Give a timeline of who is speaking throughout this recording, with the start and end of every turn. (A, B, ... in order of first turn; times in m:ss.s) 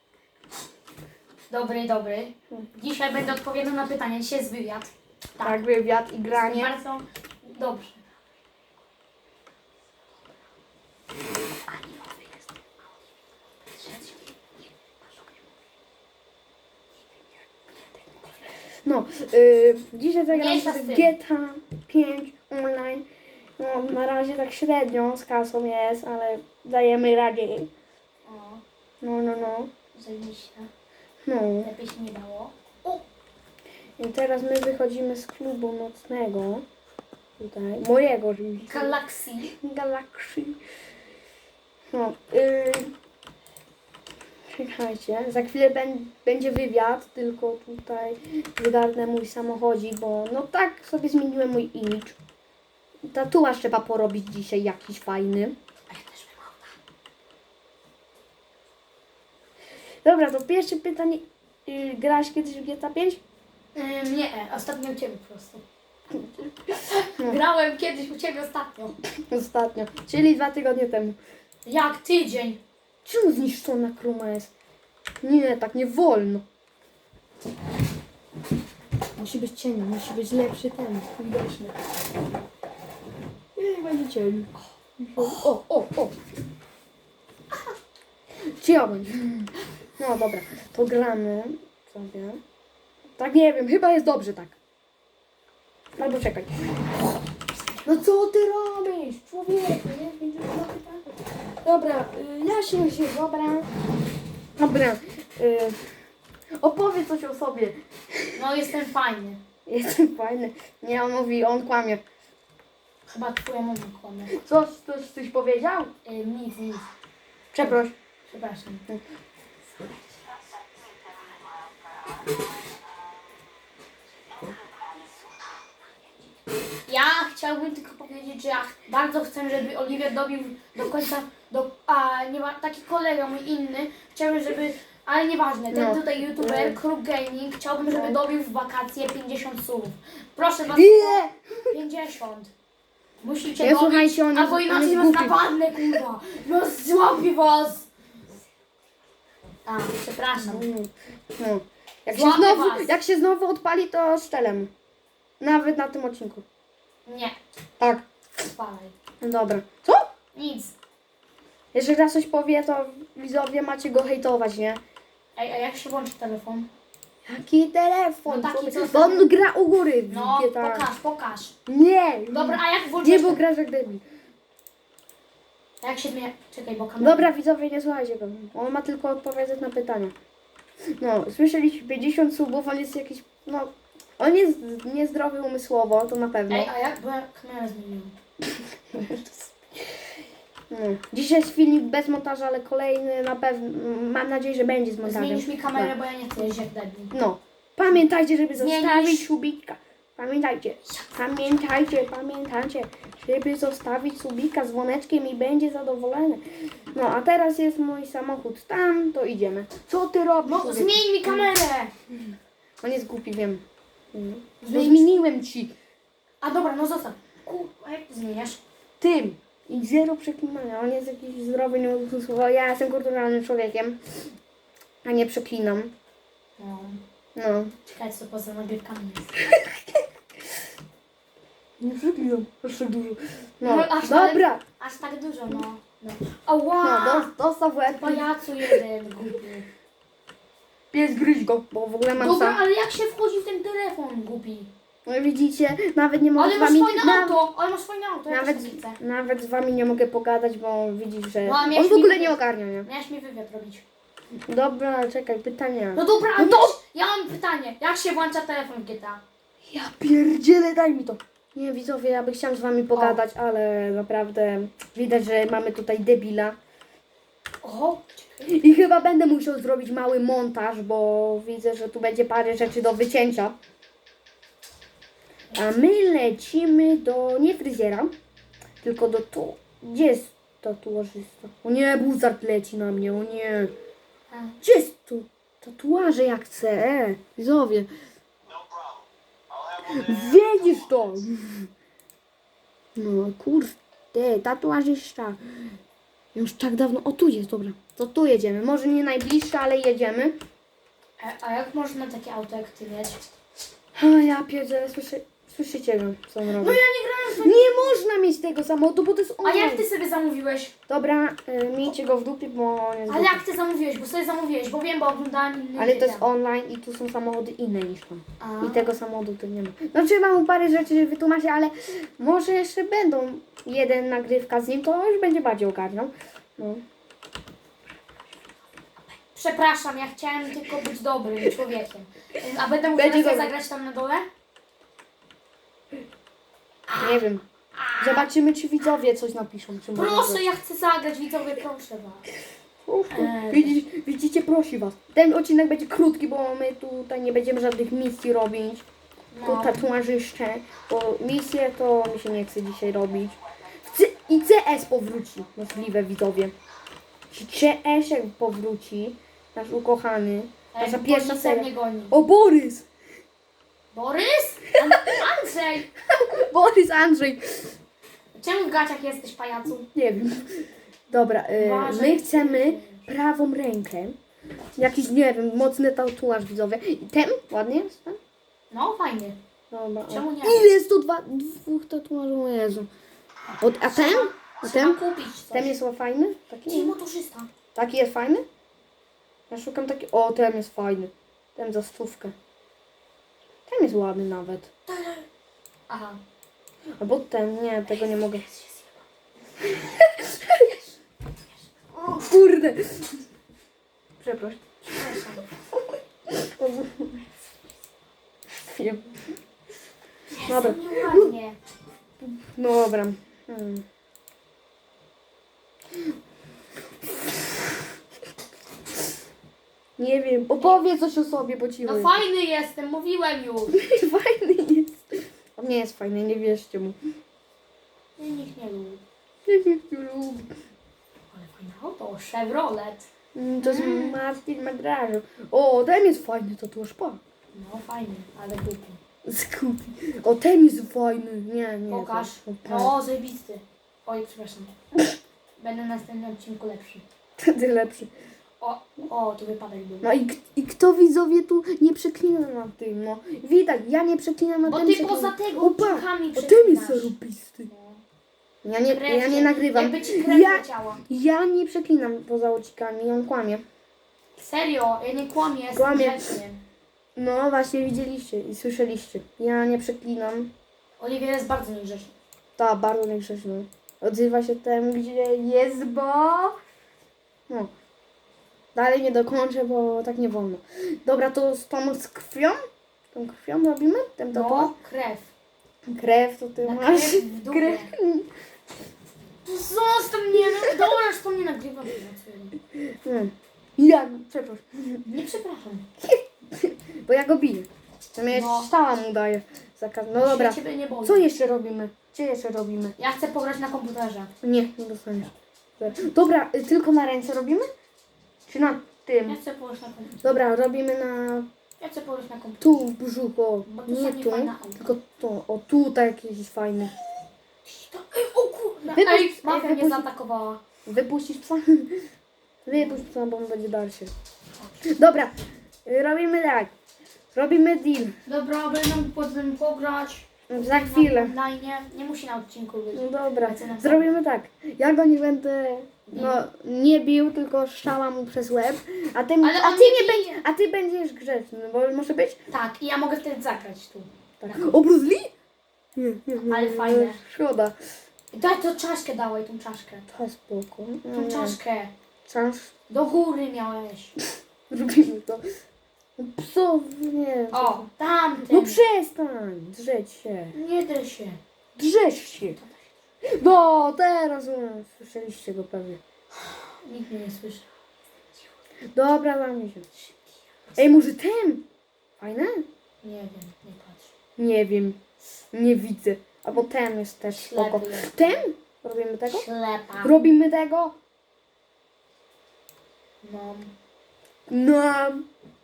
0:01.5-0:05.6 A
0:05.4-0:06.7 B
0:06.3-0:08.0 A
0:11.8-0:12.2 A
0:13.8-0:14.1 A
0:18.8-0:23.1 B
0:20.3-0:21.2 A
0:23.6-0:27.7 B
0:28.3-0:28.6 A
0:29.0-0:29.7 B
0:29.9-0:30.7 A
0:31.3-0:31.7 B
0:31.6-0:33.0 A
0:34.0-0:36.6 B
0:37.4-0:40.6 B
0:38.7-0:39.5 A
0:41.9-0:42.9 B
0:44.5-0:52.2 B
0:53.1-0:55.6 B
0:55.9-0:56.7 A
1:00.0-1:03.2 B
1:03.7-1:05.6 A
1:06.1-1:07.4 B
1:06.7-1:09.0 A
1:09.3-1:11.2 B
1:11.6-1:12.6 A
1:13.0-1:14.5 B
1:15.2-1:16.4 B
1:19.2-1:21.8 B
1:23.6-1:26.1 B
1:25.2-1:25.6 A
1:28.5-1:32.4 B
1:33.2-1:34.6 B
1:36.0-1:36.5 B
1:37.8-1:41.0 B
1:41.6-1:43.7 B
1:44.6-1:45.9 B
1:46.6-1:48.4 B
1:48.4-1:49.4 A
1:49.7-1:52.0 B
1:53.1-1:54.4 A
1:54.3-1:55.9 B
1:56.1-1:56.9 A
1:57.5-1:57.9 B
1:57.6-1:58.8 A
2:06.9-2:22.5 A
2:15.7-2:16.8 B
2:17.9-2:18.2 B
2:20.7-2:21.8 B
2:23.2-2:27.9 A
2:23.6-2:25.8 B
2:29.7-2:30.7 A
2:30.4-2:34.7 B
2:32.1-2:32.9 A
2:35.4-2:36.4 B
2:37.1-2:37.4 A
2:37.8-2:38.1 B
2:38.4-2:39.0 A
2:39.2-2:40.1 B
2:40.3-2:40.7 A
2:41.7-2:44.8 B
2:45.4-2:46.7 A
2:47.2-2:50.9 B
2:48.3-2:49.4 A
2:50.1-2:51.6 A
2:51.7-2:54.0 B
2:52.3-2:53.4 A
2:55.8-2:57.3 A
2:57.0-3:00.1 B
3:01.0-3:06.7 B
3:06.5-3:08.2 A
3:08.9-3:09.5 B
3:10.7-3:15.9 B
3:15.0-3:17.1 A
3:17.1-3:31.5 B
3:18.6-3:19.3 A
3:30.4-3:31.9 A
3:32.8-3:33.6 B
3:34.1-3:35.8 B
3:34.6-3:35.1 A
3:36.4-3:38.6 A
3:39.0-3:44.0 B
3:45.0-3:45.9 B
3:46.6-3:47.0 A
3:47.4-3:47.8 B
3:47.9-3:49.4 A
3:49.5-3:50.0 B
3:51.8-3:54.6 B
3:53.6-3:57.3 A
3:56.8-3:58.8 B
3:57.9-3:59.7 A
4:00.9-4:02.6 B
4:02.2-4:04.7 A
4:05.1-4:07.4 B
4:06.4-4:09.0 A
4:08.3-4:12.9 B
4:11.4-4:13.8 A
4:14.5-4:16.8 B
4:16.0-4:19.2 A
4:19.7-4:26.6 B
4:22.9-4:23.2 A
4:27.6-4:28.6 A
4:28.4-4:33.6 B
4:35.5-4:38.1 B
4:38.8-4:43.7 B
4:44.3-4:44.6 A
4:44.6-4:47.9 B
4:49.9-4:51.7 B
4:53.0-4:55.4 B
4:56.3-5:00.4 B
5:01.2-5:03.2 A
5:04.0-5:06.8 B
5:06.6-5:08.0 A
5:07.4-5:09.8 B
5:09.4-5:10.7 A
5:10.9-5:13.4 B
5:13.1-5:16.3 A
5:15.8-5:26.8 B
5:18.4-5:19.0 A
5:29.3-5:34.3 A
5:33.0-5:33.5 B
5:36.9-5:37.2 A
5:37.0-5:37.4 B
5:37.8-5:38.3 A
5:38.0-5:40.4 B
5:40.0-5:42.3 A
5:42.8-5:48.8 B
5:43.1-5:43.8 A
5:49.3-5:49.9 A
5:49.4-5:56.5 B
5:57.3-6:02.8 B
6:00.7-6:02.1 A
6:03.9-6:05.9 A
6:06.0-6:07.7 B
6:08.4-6:09.8 A
6:09.8-6:14.2 B
6:11.6-6:13.1 A
6:14.8-6:18.2 B
6:18.7-6:19.4 A
6:19.7-6:22.9 B
6:20.1-6:20.6 A
6:23.6-6:27.0 B
6:23.8-6:25.8 A
6:26.6-6:27.5 A
6:27.8-6:28.5 B
6:29.5-6:32.4 B
6:33.7-6:34.7 B
6:34.9-6:35.2 A
6:35.9-6:36.2 A
6:37.0-6:38.4 B
6:37.8-6:39.0 A
6:39.6-6:40.7 B
6:40.6-6:40.9 A
6:41.9-6:43.2 B
6:44.2-6:45.2 B
6:44.9-6:45.5 A
6:45.8-6:47.2 B
6:48.6-6:49.1 B
6:50.3-6:51.6 A
6:50.5-6:51.4 B
6:52.2-6:53.8 B
7:00.0-7:02.2 B
7:00.6-7:00.8 A
7:01.8-7:03.7 A
7:03.7-7:07.0 B
7:08.2-7:09.0 A
7:09.5-7:10.5 B
7:11.3-7:13.1 A
7:13.4-7:17.2 B
7:13.6-7:14.2 A
7:17.5-7:19.0 A
7:19.2-7:23.0 B
7:21.9-7:24.7 A
7:25.6-7:27.0 A
7:27.4-7:28.1 B
7:28.6-7:30.1 A
7:30.0-7:37.7 B
7:34.6-7:37.2 A
7:37.7-7:38.0 A
7:38.6-7:43.6 B
7:38.9-7:41.0 A
7:44.4-7:46.6 A
7:45.7-7:46.4 B
7:47.2-7:50.5 B
7:51.0-7:52.1 A
7:52.6-7:56.6 B
7:58.8-8:02.6 B
8:03.1-8:04.7 B
8:04.3-8:05.3 A
8:05.9-8:08.3 B
8:06.6-8:07.9 A
8:09.4-8:12.6 A
8:10.4-8:10.9 B
8:12.9-8:15.0 B
8:15.1-8:15.9 A
8:16.0-8:23.0 B
8:18.3-8:18.7 A
8:20.2-8:21.3 A
8:23.0-8:24.3 A
8:24.4-8:27.7 B
8:28.5-8:29.4 B
8:29.3-8:30.3 A
8:30.2-8:31.5 B
8:31.8-8:32.8 A
8:32.6-8:36.9 B
8:33.6-8:34.8 A
8:37.6-8:40.6 A
8:38.9-8:40.1 B
8:40.9-8:42.0 B
8:42.6-8:44.1 B
8:42.7-8:43.0 A
8:44.9-8:46.7 B
8:47.3-8:48.2 B
8:48.2-8:54.1 A
8:50.5-8:51.3 B
8:52.9-9:02.4 B
8:56.1-8:56.4 A
8:59.4-9:00.4 A
9:02.5-9:04.8 A
9:04.4-9:05.3 B
9:06.0-9:07.8 B
9:06.4-9:07.2 A
9:08.3-9:10.1 A
9:10.1-9:11.6 B
9:11.1-9:11.9 A
9:12.2-9:12.7 B
9:12.9-9:14.2 A
9:14.7-9:15.4 B
9:16.2-9:17.9 B
9:17.5-9:18.8 A
9:18.4-9:20.6 B
9:20.5-9:21.4 A
9:21.8-9:22.6 B
9:22.6-9:22.9 A
9:23.3-9:26.0 B
9:26.7-9:27.7 A
9:28.9-9:29.9 B
9:30.7-9:31.0 A
9:30.8-9:31.6 B
9:32.2-9:32.6 B
9:33.0-9:34.1 A
9:34.4-9:35.0 B
9:35.5-9:39.5 B
9:37.3-9:38.4 A
9:39.3-9:40.1 A
9:40.0-9:41.0 B
9:43.2-9:43.7 A
9:44.5-9:45.3 B